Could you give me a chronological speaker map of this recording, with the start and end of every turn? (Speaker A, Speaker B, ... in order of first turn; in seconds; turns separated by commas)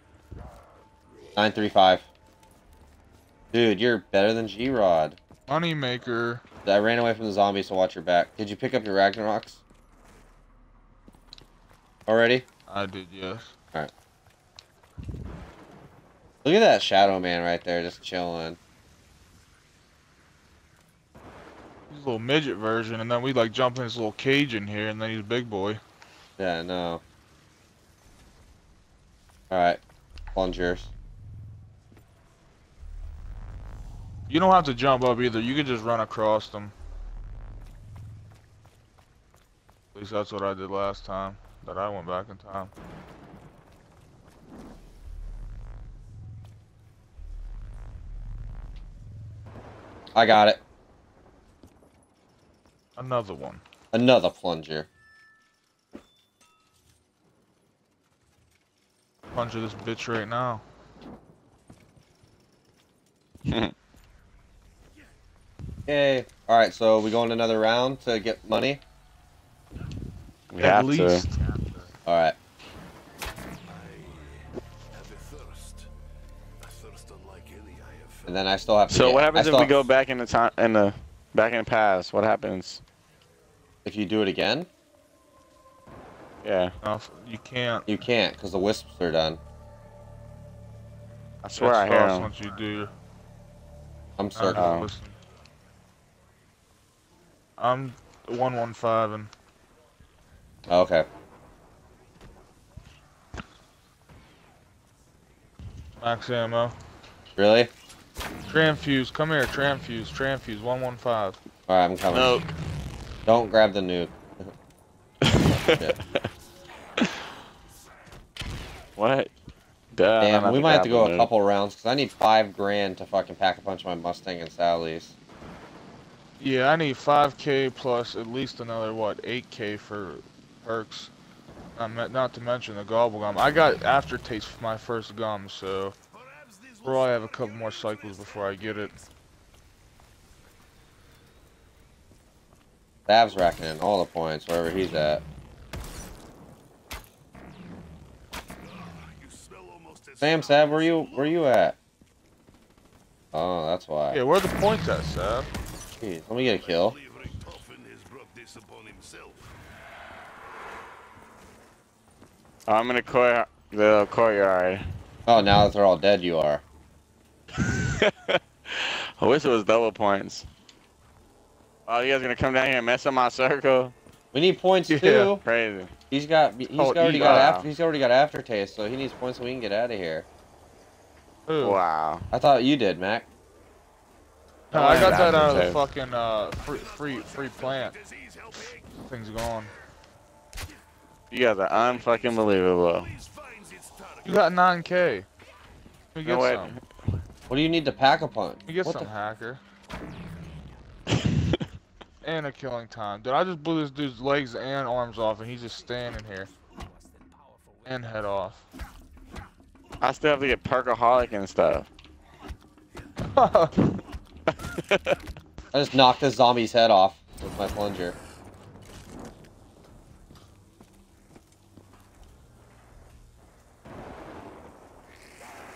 Speaker A: 1.4-2.0, Speaker A: 3.5-5.2, Speaker B: 5.5-6.4, Speaker A: 6.7-9.6, Speaker A: 12.1-12.5, Speaker B: 12.7-13.5, Speaker A: 16.4-18.6, Speaker B: 21.9-25.8, Speaker A: 26.4-27.0, Speaker A: 29.5-29.8, Speaker A: 30.4-30.9, Speaker B: 34.3-36.7, Speaker B: 40.0-42.7, Speaker A: 50.1-50.6, Speaker B: 53.0-53.6, Speaker A: 53.9-54.9, Speaker B: 59.3-60.6, Speaker C: 63.5-63.7, Speaker A: 65.9-68.8, Speaker C: 70.5-71.3, Speaker B: 70.6-71.4, Speaker A: 72.1-72.4, Speaker D: 73.7-75.9, Speaker D: 76.6-78.4, Speaker A: 78.3-79.8, Speaker C: 78.9-82.8, Speaker A: 83.8-84.7, Speaker C: 86.4-86.8, Speaker B: 86.8-87.9, Speaker A: 87.9-89.4, Speaker C: 91.4-92.3, Speaker B: 91.6-92.9, Speaker A: 94.2-94.7, Speaker B: 94.3-95.2, Speaker C: 94.5-94.9, Speaker B: 97.6-99.3, Speaker A: 100.7-101.1, Speaker B: 106.0-106.8, Speaker A: 107.4-107.7, Speaker B: 108.5-111.4, Speaker A: 111.7-112.4, Speaker C: 112.1-112.5, Speaker A: 113.3-114.5, Speaker C: 115.2-116.0, Speaker C: 119.0-119.3, Speaker C: 119.9-121.3, Speaker A: 120.2-125.1, Speaker B: 126.4-131.1, Speaker B: 131.8-135.9, Speaker D: 136.1-139.1, Speaker B: 136.8-138.9, Speaker A: 143.1-145.2, Speaker D: 148.6-151.4, Speaker A: 150.2-151.8, Speaker A: 153.3-154.2, Speaker B: 154.1-155.5, Speaker A: 156.0-157.0, Speaker D: 156.4-159.6, Speaker C: 162.7-164.9, Speaker A: 165.3-166.6, Speaker C: 167.7-170.5, Speaker C: 171.9-173.9, Speaker A: 174.3-175.4, Speaker B: 174.9-175.3, Speaker C: 175.4-175.9, Speaker A: 176.1-180.3, Speaker B: 176.8-177.6, Speaker C: 176.8-177.7, Speaker B: 181.5-181.8, Speaker C: 181.6-182.3, Speaker A: 182.3-183.3, Speaker C: 184.7-185.8, Speaker B: 184.7-187.9, Speaker D: 186.5-189.0, Speaker B: 189.1-189.7, Speaker C: 191.3-193.1, Speaker D: 191.8-194.6, Speaker B: 194.2-195.3, Speaker B: 196.2-196.8, Speaker C: 196.2-196.8, Speaker A: 197.5-199.1, Speaker B: 198.7-199.6, Speaker D: 200.4-200.7, Speaker C: 201.1-201.6, Speaker B: 202.2-206.5, Speaker D: 206.5-208.1, Speaker B: 207.9-208.7, Speaker C: 210.0-211.9, Speaker B: 213.3-213.8, Speaker C: 214.6-215.2, Speaker A: 215.7-218.2